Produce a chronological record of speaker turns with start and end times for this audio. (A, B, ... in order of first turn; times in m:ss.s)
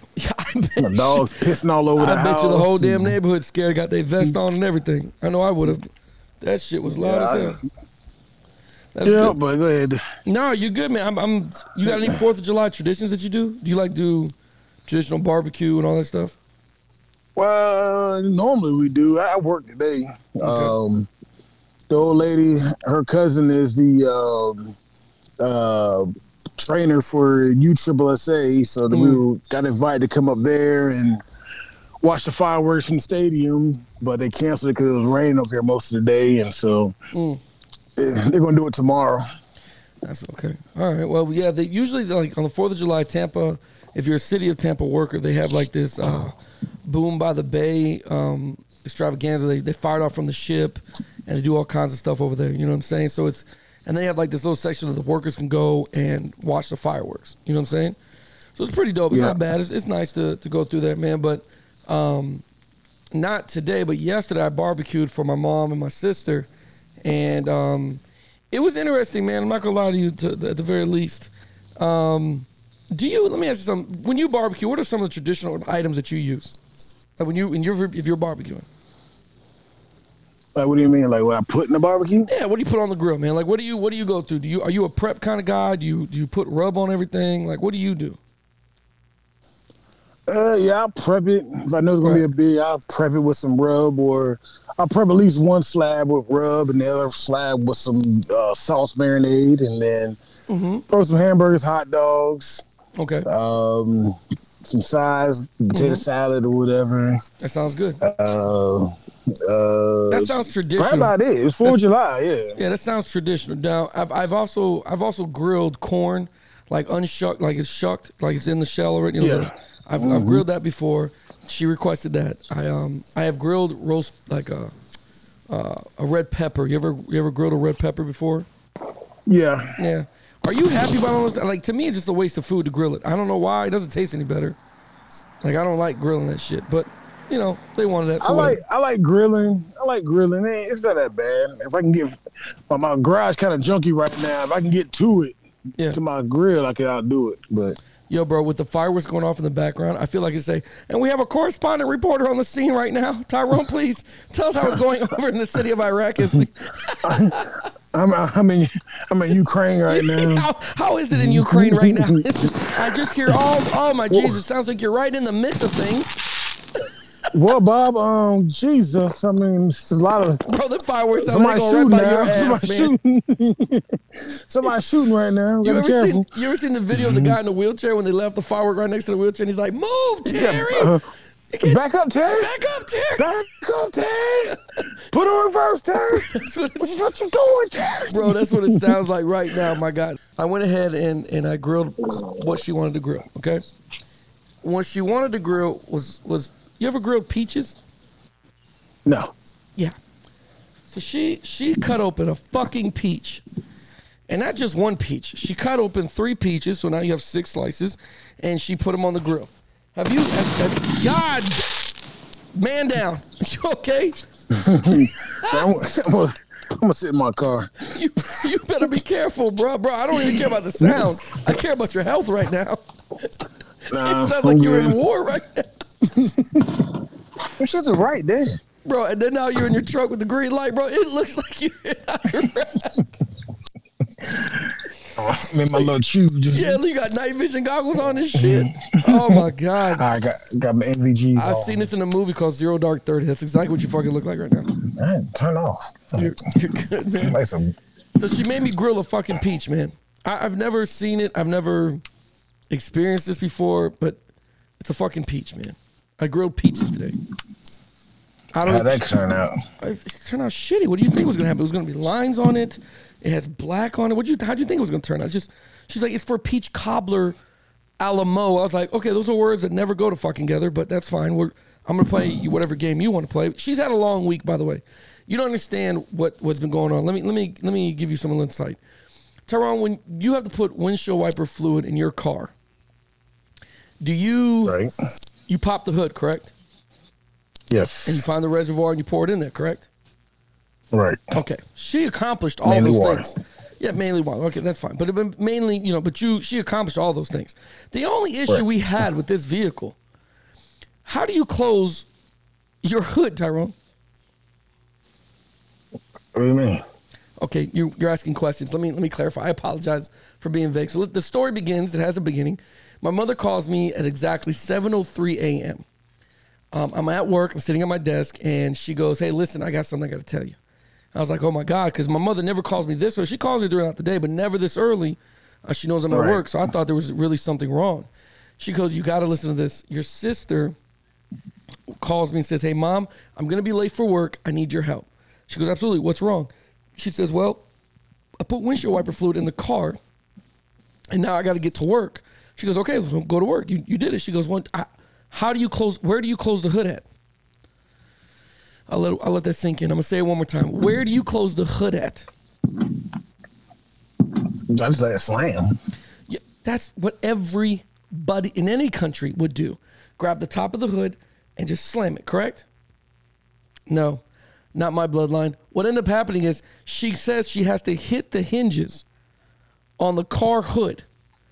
0:00.2-0:01.3 A
0:00.8-0:03.2 B
0:02.0-0:05.9 A
0:06.4-0:07.6 A
0:06.9-0:07.6 B
0:08.9-0:09.4 A
0:09.0-0:10.0 B
0:10.2-0:14.3 A
0:11.8-0:12.2 B
0:14.8-0:16.4 A
0:17.4-0:21.1 B
0:20.4-0:20.7 A
0:21.9-0:24.8 B
0:25.4-0:31.2 B
0:28.9-0:29.2 A
0:32.0-0:36.9 B
0:37.1-0:37.4 A
0:38.0-0:39.2 B
0:40.0-0:58.0 A
0:58.6-1:02.4 A
0:59.1-0:59.4 B
1:03.1-1:06.5 A
1:07.0-1:08.0 A
1:08.5-1:16.6 A
1:17.2-1:18.7 A
1:20.5-1:22.3 B
1:22.3-1:28.2 A
1:30.3-1:40.2 B
1:40.5-1:40.8 A
1:40.9-1:42.6 B
1:43.0-1:43.3 A
1:43.2-1:47.2 B
1:45.7-1:46.0 A
1:47.4-1:48.0 A
1:48.0-1:52.6 B
1:50.1-1:51.1 A
1:52.5-2:04.7 A
1:59.2-2:00.4 B
2:05.5-2:08.5 A
2:09.2-2:09.8 B
2:09.8-2:14.6 A
2:15.4-2:18.6 A
2:18.2-2:25.4 B
2:25.9-2:27.8 B
2:28.1-2:37.6 A
2:37.0-2:37.4 B
2:37.9-2:40.5 B
2:39.9-2:46.2 A
2:41.1-2:43.4 B
2:44.1-2:44.4 B
2:47.3-2:50.4 B
2:50.4-2:52.9 A
2:51.2-2:56.3 B
2:55.6-3:01.0 A
2:56.9-2:57.4 B
3:00.2-3:01.0 B
3:01.5-3:03.3 A
3:01.6-3:02.5 B
3:03.1-3:04.6 B
3:04.5-3:04.9 A
3:05.1-3:09.0 B
3:06.1-3:07.1 A
3:08.1-3:13.6 A
3:14.6-3:17.8 A
3:19.0-3:19.3 B
3:20.9-3:23.4 A
3:24.3-3:31.8 A
3:32.5-3:35.6 A
3:34.5-3:37.9 B
3:37.9-3:42.8 A
3:40.8-3:41.6 B
3:43.9-3:45.0 B
3:43.9-3:45.8 A
3:46.0-3:46.9 B
3:47.6-3:48.6 B
3:48.8-3:53.0 A
3:54.2-3:56.8 B
3:56.5-4:00.0 A
3:58.3-4:01.9 B
4:01.4-4:04.8 A
4:04.7-4:06.4 B
4:06.1-4:07.4 A
4:07.2-4:07.8 B
4:08.2-4:12.0 A
4:12.7-4:14.2 A
4:14.8-4:17.2 A
4:18.5-4:19.0 A
4:18.6-4:19.6 B
4:19.8-4:27.4 A
4:28.0-4:38.8 A
4:39.5-4:42.5 A
4:44.0-4:44.8 A
4:44.6-4:44.9 B
4:45.5-4:46.5 A
4:47.7-4:48.2 B
4:48.0-4:49.9 A
4:50.9-4:51.3 B
4:51.3-5:00.0 A
4:52.6-4:53.3 B
5:01.0-5:02.1 A
5:02.8-5:03.7 A
5:06.3-5:06.8 B
5:07.4-5:15.8 A
5:16.7-5:20.6 A
5:21.1-5:28.1 A
5:26.1-5:26.4 B
5:28.6-5:30.8 A
5:32.0-5:37.6 A
5:38.4-5:40.0 A
5:41.1-5:47.0 A
5:48.9-5:52.3 A
5:54.3-5:55.8 B
5:56.3-6:02.6 A
6:03.9-6:04.2 A
6:04.7-6:09.0 A
6:10.0-6:11.0 A